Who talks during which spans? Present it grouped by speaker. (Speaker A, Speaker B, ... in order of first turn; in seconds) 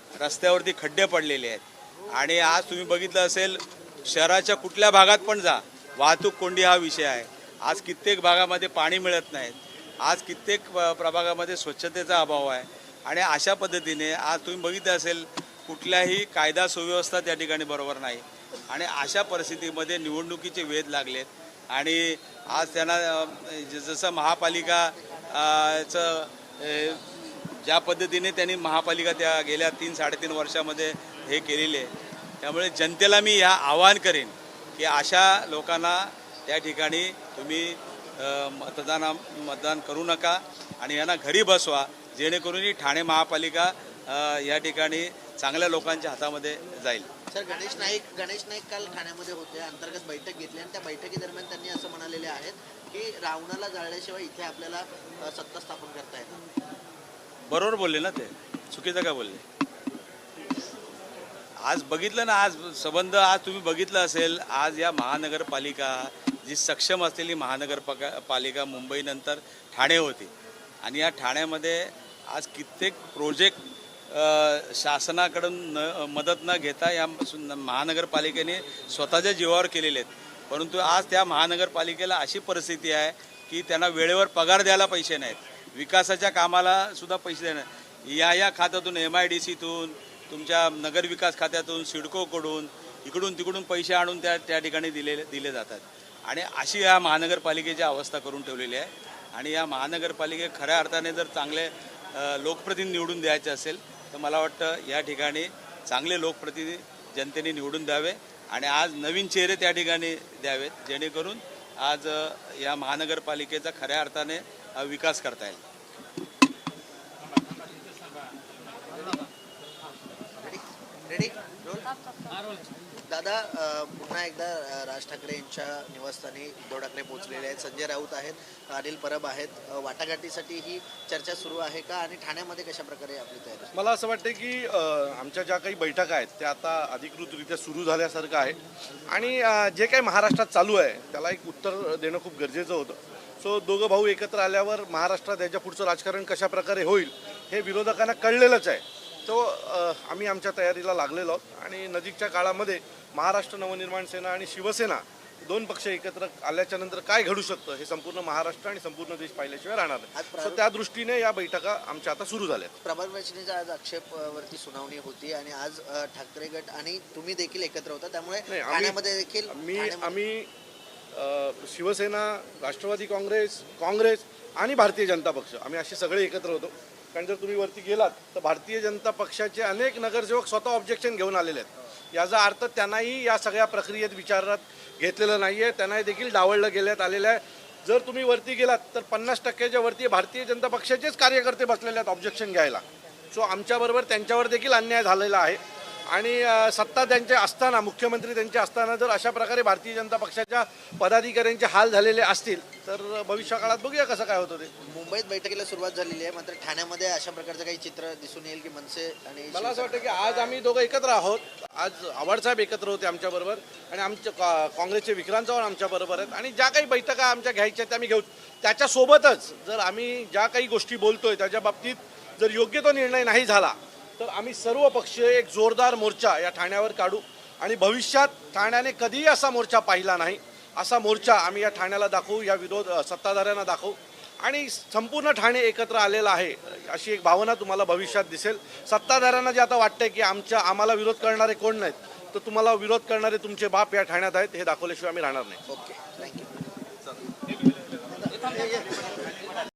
Speaker A: 0.1-31.9, 32.4-47.1, 57.5-59.4, 61.6-70.3, 70.8-73.6, 74.1-115.6
Speaker B: 47.3-56.4, 120.4-122.0, 123.0-133.8, 160.1-160.6, 162.8-170.2, 204.8-210.2, 245.7-246.6, 248.1-249.3
Speaker C: 133.7-162.7, 168.5-170.5, 171.1-204.7, 209.5-245.6